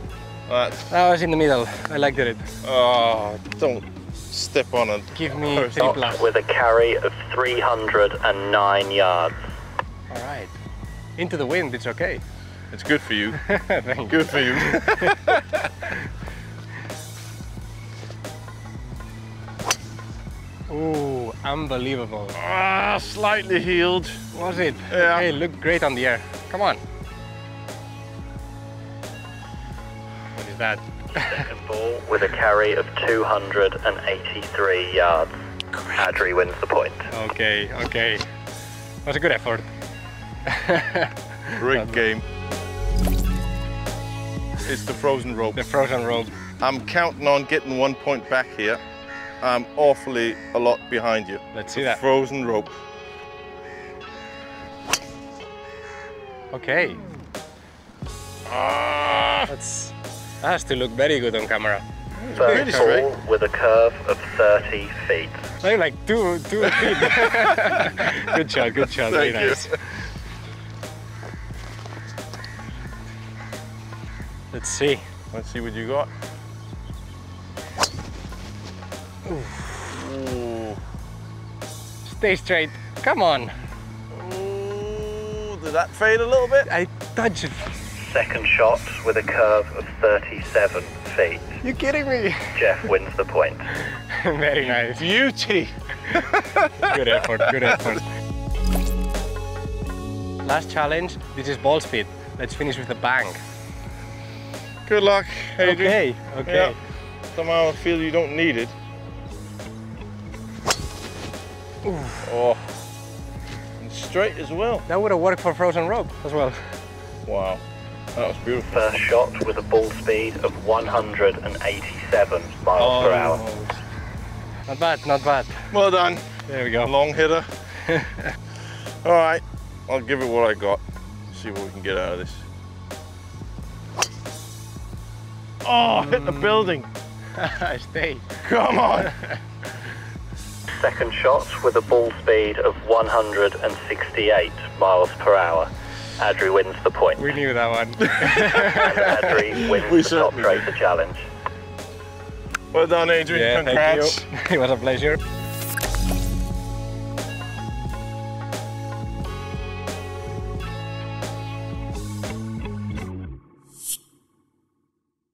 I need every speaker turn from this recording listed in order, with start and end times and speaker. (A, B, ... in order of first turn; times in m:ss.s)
0:00.5-0:00.9 A
0:00.9-0:02.5 B
0:02.6-0:06.2 A
0:05.1-0:06.3 B
0:06.2-0:09.4 C
0:10.1-0:10.5 B
0:11.2-0:12.2 B
0:12.7-0:13.4 A
0:13.4-0:15.3 B
0:14.1-0:15.6 A
0:20.7-0:22.4 B
0:22.4-0:24.2 A
0:24.3-0:26.8 B
0:24.9-0:25.3 A
0:30.3-0:31.4 B
0:31.2-0:35.4 C
0:35.7-0:36.0 A
0:36.0-0:37.1 C
0:37.1-0:38.2 B
0:39.0-0:39.7 B
0:40.4-0:42.0 B
0:41.6-0:42.2 A
0:44.6-0:45.6 A
0:45.5-0:46.3 B
0:46.6-0:48.8 A
0:49.4-0:52.7 A
0:51.5-0:52.0 B
0:56.5-0:57.0 B
0:58.5-0:59.5 A
0:59.5-1:01.8 B
1:02.2-1:03.1 A
1:02.3-1:05.4 C
1:02.4-1:03.0 B
1:05.6-1:09.7 B
1:06.8-1:08.0 A
1:08.8-1:09.8 A
1:14.5-1:15.0 B
1:15.3-1:16.1 A
1:19.2-1:19.9 B
1:19.9-1:20.8 A
1:22.0-1:23.5 B
1:24.1-1:26.7 A
1:26.6-1:27.7 B
1:28.0-1:31.6 C
1:31.6-1:32.5 B
1:32.5-1:33.7 C
1:33.9-1:35.1 B
1:34.6-1:37.7 A
1:36.8-1:38.0 B
1:40.4-1:43.4 B
1:44.8-1:46.7 A
1:45.6-1:46.8 B
1:47.3-1:48.7 A
1:51.8-1:52.2 B
1:52.2-1:52.8 A
1:53.8-1:54.8 A
1:54.9-1:56.7 B
1:57.2-1:57.6 A
1:58.1-1:58.8 A
1:58.7-2:03.4 C
2:02.8-2:03.5 A
2:03.2-2:03.7 B
2:04.7-2:05.7 B
2:05.7-2:07.5 A
2:06.5-2:06.9 B
2:07.8-2:08.3 B
2:09.0-2:12.4 A
2:15.6-2:16.9 A
2:16.0-2:16.7 B
2:17.4-2:18.2 B
2:18.4-2:19.1 A
2:20.8-2:27.2 C
2:27.2-2:29.3 B
2:28.0-2:28.8 A
2:28.6-2:31.2 C
2:29.5-2:30.8 A
2:32.7-2:34.2 A
2:33.3-2:35.2 B